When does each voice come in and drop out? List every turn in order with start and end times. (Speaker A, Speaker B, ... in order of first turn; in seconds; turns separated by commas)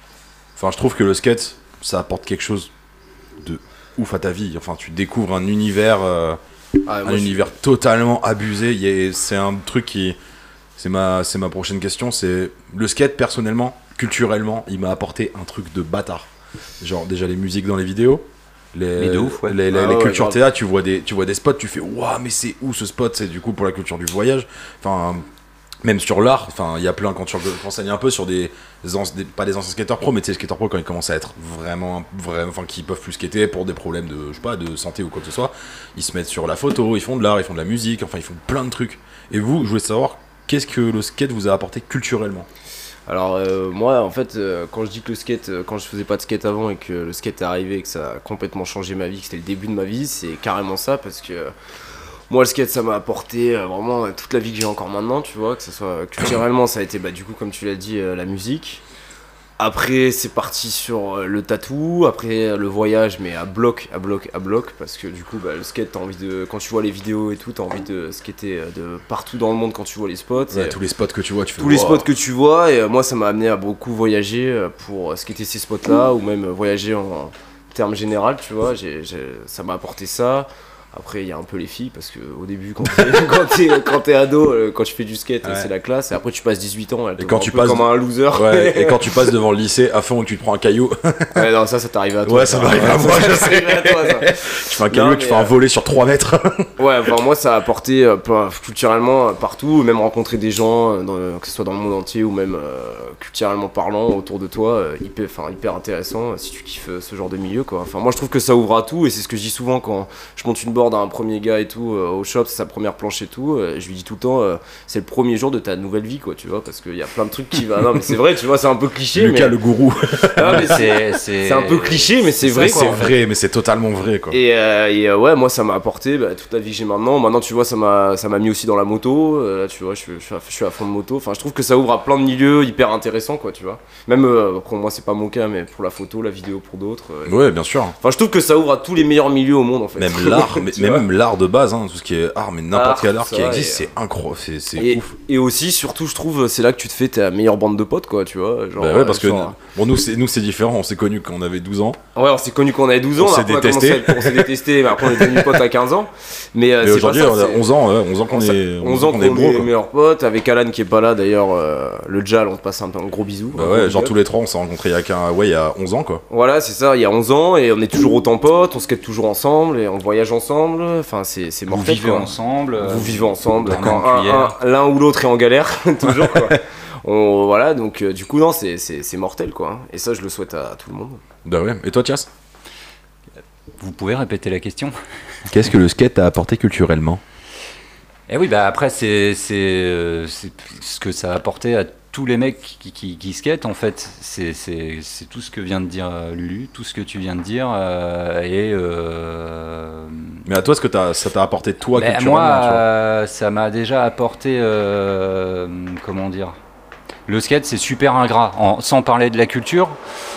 Speaker A: 0.6-2.7, Speaker A: 3.4-6.4, Speaker B: 6.8-7.5, Speaker A: 7.0-10.2, Speaker A: 10.8-16.3, Speaker A: 16.8-25.2, Speaker C: 19.0-19.6, Speaker B: 19.7-20.4, Speaker A: 25.8-42.5, Speaker B: 43.1-51.5, Speaker B: 52.3-58.8, Speaker B: 59.6-70.8, Speaker A: 70.5-72.1, Speaker B: 71.6-89.2, Speaker A: 87.2-91.5, Speaker B: 91.3-95.5, Speaker A: 92.2-96.7, Speaker B: 96.8-119.5, Speaker A: 119.1-120.9, Speaker B: 120.2-123.1, Speaker C: 120.4-123.2, Speaker A: 122.6-124.4, Speaker B: 124.3-137.4, Speaker A: 137.2-137.9, Speaker B: 138.0-141.1, Speaker A: 140.0-145.1, Speaker B: 142.7-143.9, Speaker B: 144.8-149.6, Speaker A: 148.8-152.0, Speaker B: 152.1-157.7, Speaker A: 153.2-155.6, Speaker A: 156.8-159.7, Speaker B: 158.3-164.1, Speaker A: 163.5-166.2, Speaker B: 166.3-181.2, Speaker C: 171.7-174.6, Speaker A: 176.1-176.6, Speaker A: 181.4-182.3, Speaker C: 183.8-184.9, Speaker A: 185.5-187.2, Speaker C: 188.3-200.4, Speaker A: 200.4-202.8, Speaker C: 201.9-206.6, Speaker C: 207.3-210.0